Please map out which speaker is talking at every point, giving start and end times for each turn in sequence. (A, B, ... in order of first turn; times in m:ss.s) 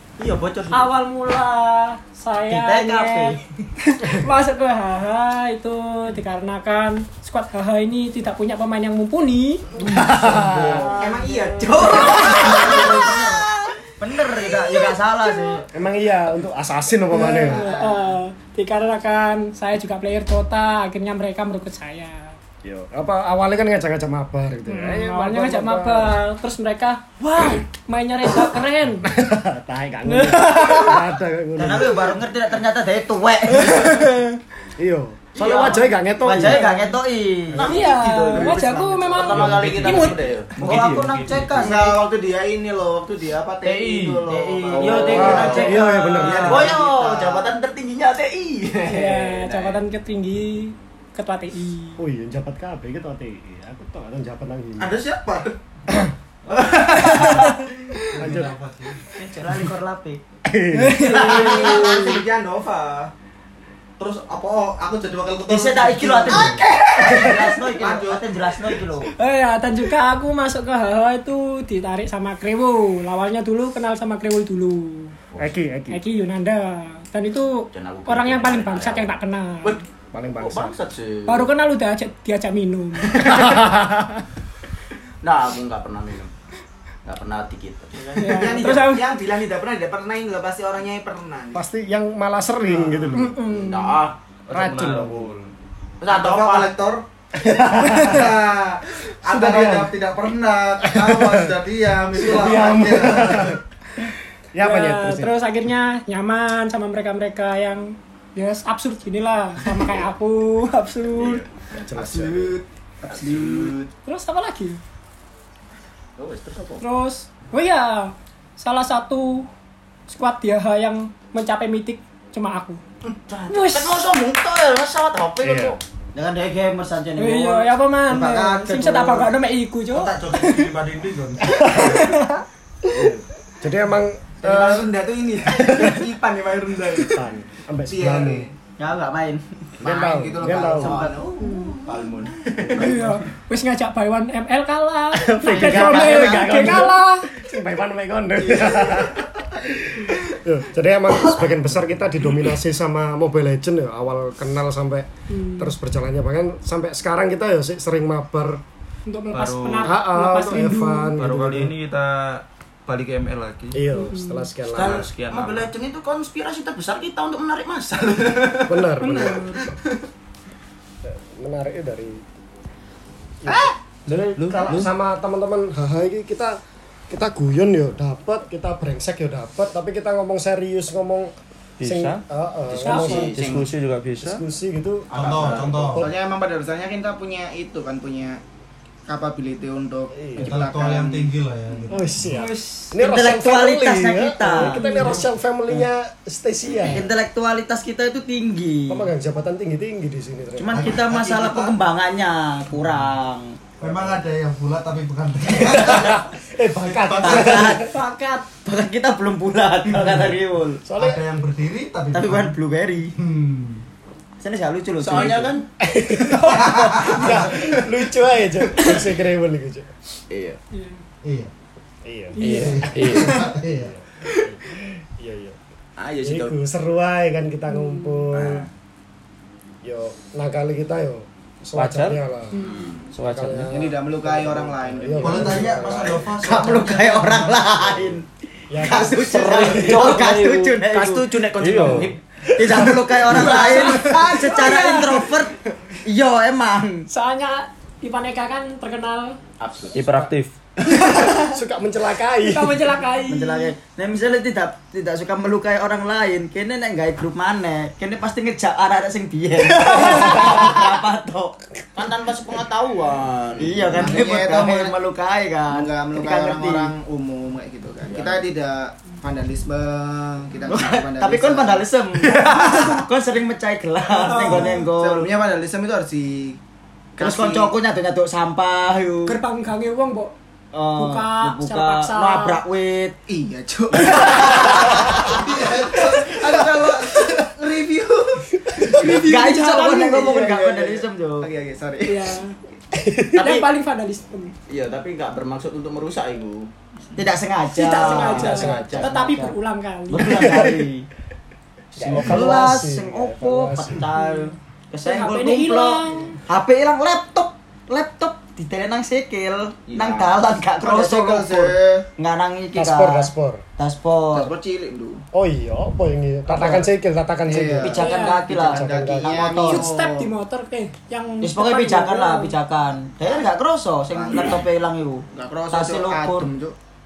0:00.2-0:00.9 A
0:00.7-0:03.4 B
0:02.5-0:03.4 C
0:03.9-0:09.9 B
0:10.0-0:10.9 D
0:10.9-0:13.4 E
0:11.0-0:12.6 B
0:11.8-0:13.4 C
0:11.9-0:13.2 A
0:14.0-0:15.6 C
0:15.8-0:17.7 D
0:17.2-0:22.4 B
0:17.5-0:18.0 E
0:22.6-0:26.1 D
0:24.7-0:29.1 B
0:27.4-0:27.6 A
0:29.0-0:32.1 D
0:30.1-0:31.1 B
0:31.6-0:34.0 C
0:34.8-0:36.6 D
0:35.4-0:36.0 A
0:36.2-0:37.7 C
0:36.4-0:37.0 B
0:37.5-0:40.5 A
0:37.6-0:40.3 B
0:39.3-0:41.6 F
0:40.6-0:42.0 C
0:41.6-0:47.6 E
0:43.6-0:49.8 A
0:44.7-0:46.8 C
0:45.1-0:46.7 D
0:48.8-0:52.0 B
0:52.0-0:55.0 D
0:54.8-0:55.5 G
0:56.7-0:57.4 E
0:56.7-0:57.3 A
0:57.0-0:59.6 G
0:58.2-0:58.6 D
0:59.2-1:00.2 C
1:00.4-1:01.3 D
1:00.8-1:02.1 B
1:01.0-1:03.1 E
1:01.0-1:02.2 A
1:01.7-1:02.2 G
1:04.0-1:08.3 G
1:05.5-1:09.1 C
1:06.4-1:07.0 E
1:09.2-1:15.1 B
1:15.4-1:16.0 D
1:15.9-1:19.8 B
1:17.7-1:21.5 A
1:20.1-1:20.8 D
1:21.3-1:23.6 B
1:23.1-1:23.4 A
1:23.4-1:23.7 D
1:25.2-1:26.3 A
1:27.1-1:28.5 A
1:28.2-1:29.1 B
1:28.2-1:31.6 E
1:31.5-1:33.4 D
1:33.2-1:34.0 B
1:33.4-1:34.2 A
1:34.5-1:35.5 F
1:34.5-1:35.3 D
1:36.0-1:36.7 A
1:36.0-1:37.0 G
1:37.6-1:38.3 D
1:37.9-1:43.6 G
1:39.2-1:39.9 D
1:40.9-1:41.5 D
1:42.2-1:43.6 D
1:44.5-1:45.4 D
1:44.6-1:51.5 B
1:51.1-1:51.4 A
1:51.9-1:52.6 D
1:52.0-1:53.8 E
1:53.1-1:53.9 A
1:54.0-1:54.8 B
1:56.2-1:56.8 A
1:56.8-1:59.5 B
2:00.1-2:02.8 B
2:03.0-2:05.8 A
2:03.5-2:04.0 B
2:05.4-2:05.8 D
2:06.2-2:07.7 C
2:07.2-2:10.5 B
2:08.4-2:08.8 E
2:09.9-2:12.1 G
2:11.6-2:11.9 D
2:11.8-2:12.4 B
2:12.9-2:14.9 D
2:14.4-2:17.2 E
2:15.5-2:16.0 D
2:17.0-2:18.5 D
2:17.9-2:18.5 E
2:18.8-2:19.4 C
2:19.8-2:22.2 E
2:19.8-2:21.0 D
2:20.7-2:23.2 A
2:22.7-2:27.3 B
2:25.4-2:29.3 D
2:25.7-2:26.4 C
2:30.0-2:38.6 D
2:35.3-2:35.7 B
2:39.1-2:41.1 B
2:39.3-2:39.9 F
2:39.8-2:41.7 D
2:41.2-2:43.8 F
2:43.7-2:45.1 D
2:43.9-2:44.5 B
2:44.7-2:48.9 A
2:44.8-2:45.7 F
2:48.7-2:49.5 D
2:49.0-2:49.6 B
2:51.0-2:52.2 D
2:53.4-2:56.6 D
2:54.4-2:54.9 F
2:57.1-3:01.3 D
3:01.8-3:02.2 F
3:01.8-3:03.5 D
3:02.7-3:03.7 A
3:02.8-3:03.3 B
3:03.2-3:04.4 F
3:04.2-3:06.1 D
3:05.1-3:06.0 A
3:05.1-3:06.1 G
3:05.9-3:08.4 E
3:09.1-3:12.0 E
3:10.1-3:10.6 D
3:10.4-3:12.3 G
3:11.9-3:17.1 D
3:12.3-3:12.9 B
3:13.0-3:14.8 C
3:14.6-3:15.2 B
3:16.9-3:19.1 C
3:18.9-3:20.9 D
3:20.6-3:23.6 C
3:20.7-3:21.8 G
3:23.8-3:26.3 G
3:25.7-3:27.9 D
3:26.9-3:27.8 G
3:27.2-3:30.8 C
3:29.9-3:30.4 G
3:30.8-3:31.2 D
3:31.0-3:32.6 G
3:32.1-3:33.1 C
3:33.2-3:33.8 G
3:34.4-3:35.6 C
3:35.0-3:35.7 A
3:35.8-3:39.9 D
3:36.4-3:37.8 G
3:40.3-3:40.6 A
3:40.7-3:41.0 B
3:41.2-3:41.5 G
3:42.0-3:45.6 D
3:42.4-3:43.2 B
3:42.5-3:43.9 G
3:42.9-3:43.4 F
3:46.0-3:46.6 A
3:46.2-3:48.7 D
3:47.7-3:48.2 B
3:48.3-3:48.7 A
3:49.8-3:52.6 D
3:51.8-3:52.2 F
3:52.5-3:52.8 B
3:52.5-3:53.0 A
3:53.1-3:53.9 F
3:53.2-3:56.3 D
3:53.7-3:55.8 E
3:55.2-3:58.2 G
3:56.4-3:58.2 C
3:58.7-3:59.3 D
3:58.8-4:01.2 C
3:58.8-4:00.1 E
3:59.4-4:01.0 F
4:00.8-4:02.2 A
4:01.6-4:02.2 F
4:02.5-4:07.1 C
4:02.7-4:03.2 D
4:03.4-4:03.9 E
4:03.4-4:05.3 B
4:07.1-4:09.4 B
4:09.6-4:10.0 A
4:10.0-4:10.5 F
4:11.0-4:11.5 B
4:11.4-4:12.9 D
4:12.3-4:13.7 B
4:13.3-4:21.6 C
4:19.8-4:20.6 E
4:22.0-4:24.1 A
4:23.6-4:26.9 C
4:23.9-4:24.9 E
4:25.7-4:32.9 E
4:28.0-4:28.4 A
4:30.7-4:35.3 C
4:34.3-4:34.9 B
4:34.5-4:36.6 E
4:37.2-4:37.7 E
4:37.2-4:39.4 C
4:39.3-4:40.3 B
4:40.7-4:43.2 C
4:40.9-4:42.6 B
4:43.3-4:52.3 E
4:44.0-4:45.2 C
4:45.1-4:47.5 G
4:48.9-4:51.5 C
4:52.1-4:52.6 B
4:53.0-4:53.5 D
4:53.3-4:54.5 B
4:54.7-4:56.7 A
4:57.2-4:59.5 C
4:57.7-5:00.7 B
4:58.0-4:59.3 A
5:00.1-5:01.1 C
5:02.0-5:04.1 D
5:02.0-5:02.6 A
5:02.0-5:14.5 C
5:05.0-5:06.4 B
5:09.9-5:10.4 A
5:10.7-5:12.1 E
5:12.8-5:13.6 D
5:14.3-5:15.2 E
5:15.3-5:18.0 D
5:17.5-5:20.3 E
5:17.8-5:19.9 C
5:17.9-5:18.5 B
5:18.6-5:19.4 D
5:19.5-5:22.5 B
5:21.4-5:26.5 C
5:23.2-5:23.5 E
5:24.1-5:24.6 E
5:25.3-5:26.8 E